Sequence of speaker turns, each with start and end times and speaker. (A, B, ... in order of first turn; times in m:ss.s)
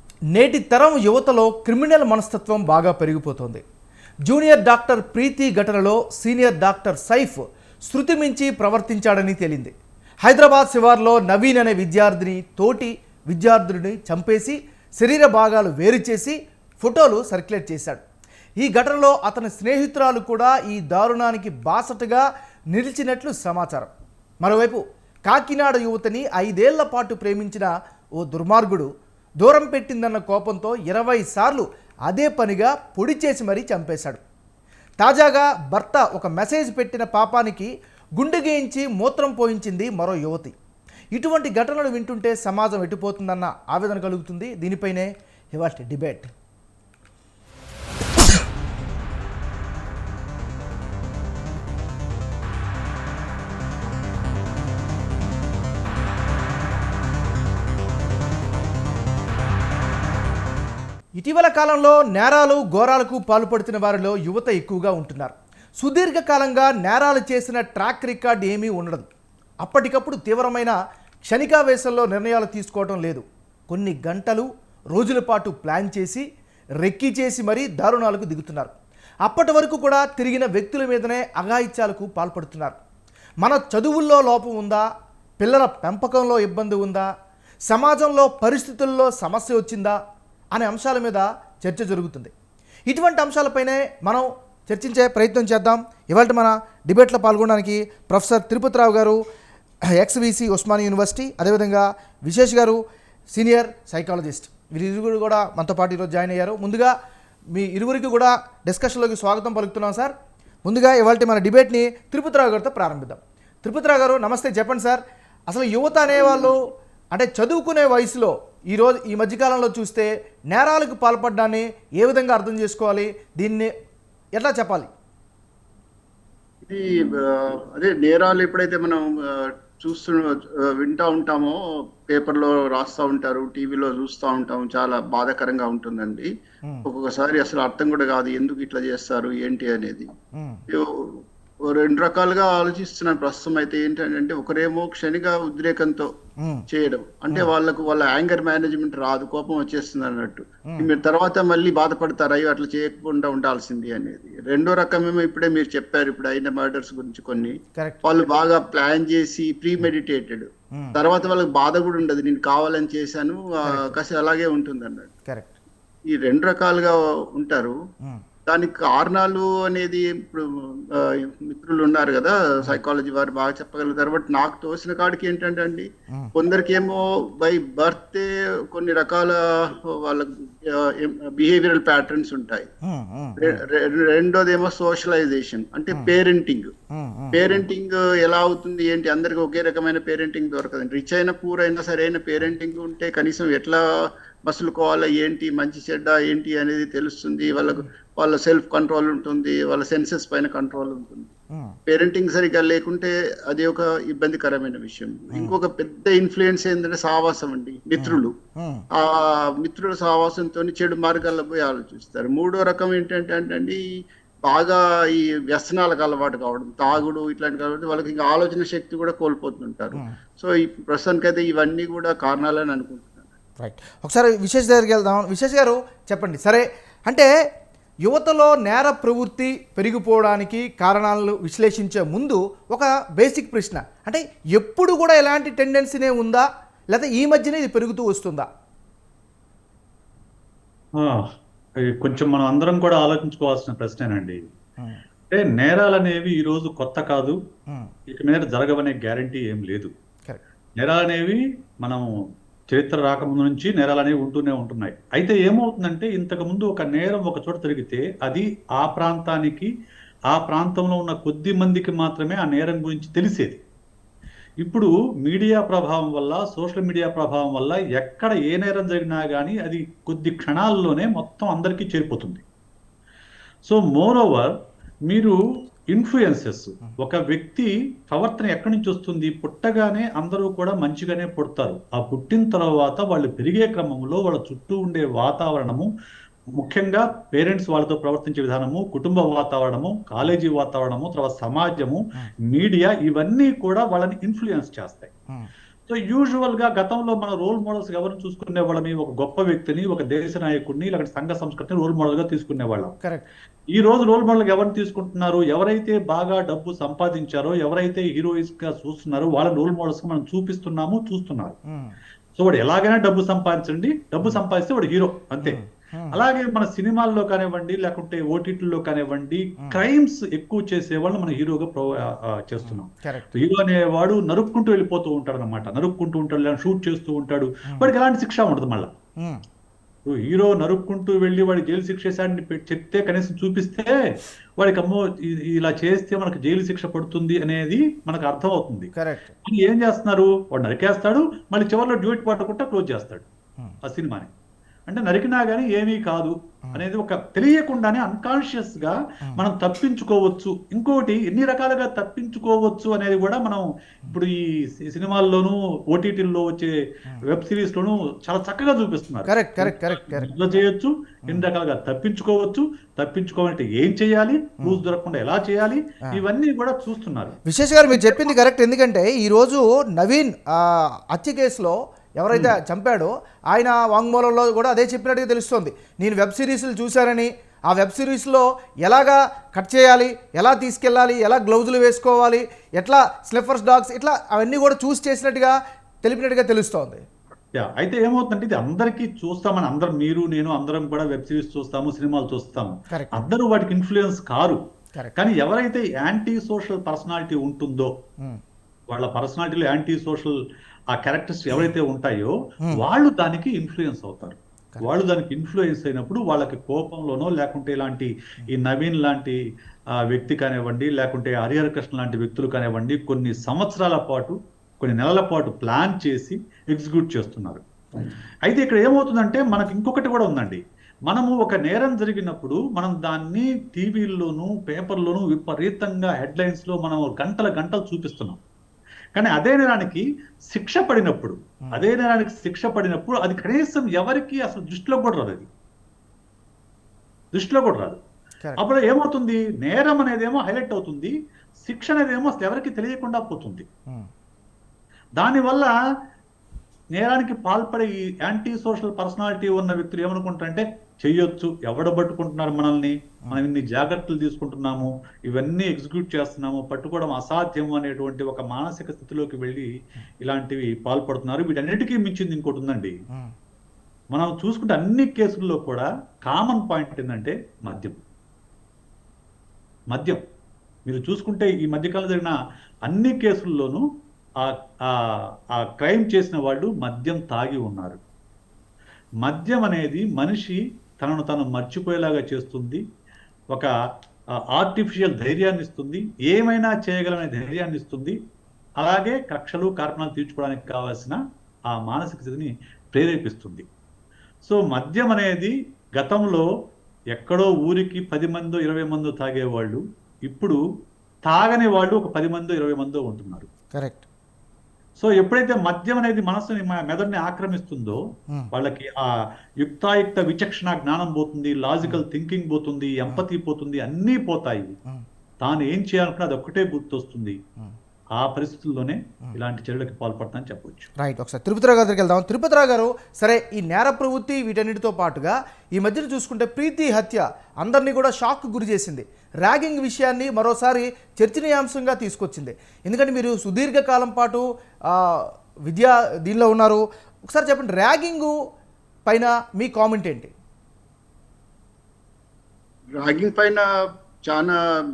0:00.3-0:03.6 A
0:04.3-0:09.7 A
0:10.2-0:18.0 A
0:18.6-0:23.9 A
0:24.4-0:28.9 A
0:29.4-0:34.2 A
0:35.0-0:40.6 A
0:41.2-0:46.3 A
1:01.2-1:09.1 A
1:09.6-1:16.3 A
1:16.8-1:18.7 A
1:19.2-1:22.8 A
1:23.4-1:24.9 A
1:25.4-1:27.1 A
1:27.7-1:30.0 A
1:30.6-1:32.3 A
1:32.9-1:39.2 A
1:39.9-1:42.8 A
1:43.3-1:47.0 A
1:47.5-2:03.7 A
2:04.4-2:04.9 A
2:06.6-2:16.3 B
2:16.9-2:20.1 B
2:20.4-2:20.6 A
2:20.7-2:26.1 B
2:26.7-2:45.1 B
2:43.6-2:44.0 A
2:45.3-2:45.5 A
2:46.1-2:47.8 B
2:48.5-3:02.7 B
3:02.8-3:03.6 A
3:03.4-3:06.7 B
3:06.9-3:07.5 A
3:07.3-3:13.8 B
3:14.5-3:21.3 B
3:21.9-3:28.3 B
3:25.3-3:25.6 A
3:28.0-3:28.9 A
3:28.9-3:33.8 B
3:34.5-3:43.3 B
3:43.6-3:47.3 A
3:48.1-3:58.5 A
4:01.0-4:04.4 C
4:05.3-4:07.4 C
4:08.1-4:09.9 C
4:10.8-4:12.1 C
4:12.7-4:19.7 C
4:20.3-4:23.6 C
4:24.6-4:32.4 C
4:33.7-4:34.5 C
4:35.1-4:35.4 C
4:35.9-4:45.9 C
4:46.5-4:55.1 C
4:55.9-5:02.9 C
5:03.7-5:11.6 C
5:11.7-5:12.0 A
5:12.4-5:15.6 C
5:15.4-5:16.2 A
5:16.1-5:28.9 C
5:19.6-5:19.8 A
5:22.6-5:23.3 A
5:30.0-5:38.9 C
5:39.0-5:39.4 A
5:39.4-5:43.3 C
5:43.8-5:44.3 C
5:44.9-6:07.4 C
5:59.3-6:00.3 A
6:07.5-6:27.0 A
6:27.6-6:34.6 C
6:32.9-6:33.3 A
6:35.2-6:37.9 C
6:38.9-6:40.4 C
6:40.9-6:49.4 C
6:50.0-6:57.6 C
6:58.5-7:08.4 C
7:09.2-7:15.5 C
7:17.3-7:18.0 C
7:18.6-7:23.7 C
7:25.2-7:25.7 C
7:27.0-7:39.7 C
7:40.2-7:43.0 C
7:44.1-7:48.0 C
7:49.9-7:50.2 C
7:50.9-7:53.8 C
7:54.4-7:55.0 C
7:55.6-7:58.0 C
7:59.2-8:02.8 C
8:04.5-8:08.2 C
8:08.8-8:13.7 C
8:14.4-8:16.5 C
8:17.1-8:20.6 C
8:21.3-8:23.5 C
8:23.8-8:24.0 A
8:25.0-8:29.1 C
8:29.6-8:34.8 C
8:35.4-8:37.4 C
8:38.2-8:40.9 C
8:41.0-8:58.4 A
8:59.1-9:00.3 A
9:03.0-9:03.6 B
9:04.3-9:04.6 B